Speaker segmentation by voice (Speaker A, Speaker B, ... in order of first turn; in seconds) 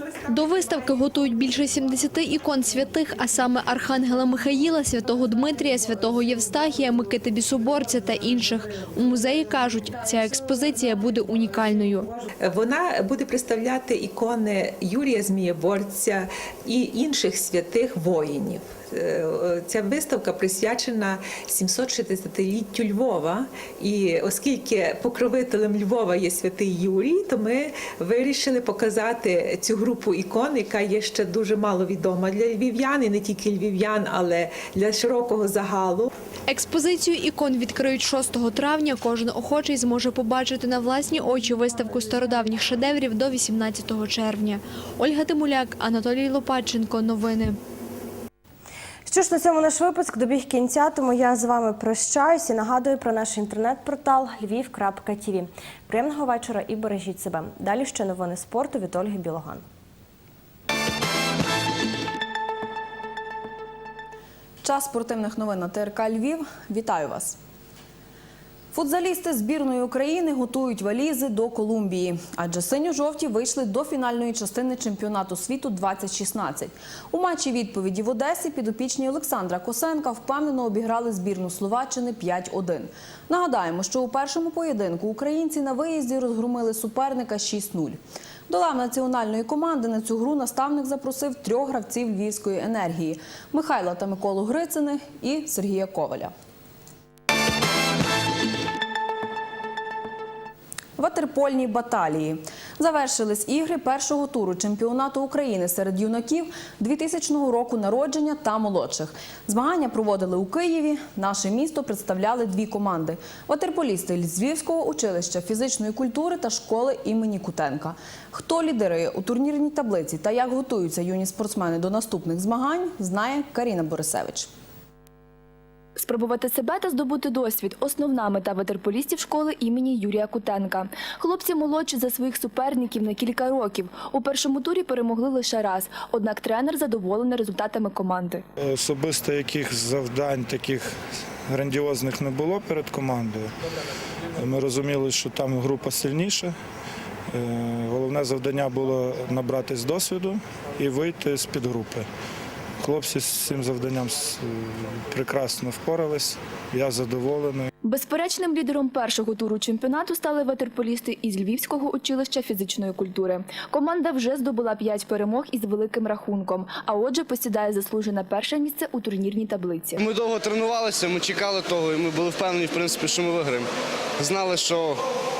Speaker A: 0.3-12.1, 36.5-47.6
Speaker B: 12.4-36.1
Speaker C: 49.1-59.6
Speaker D: 64.6-67.3, 68.7-96.3, 101.0-124.5
Speaker E: 126.0-138.4, 157.8-170.0
Speaker F: 138.6-140.9, 141.5-143.5, 144.4-146.5, 147.3-152.1, 152.8-157.7
Speaker G: 170.0-173.7, 174.2-175.0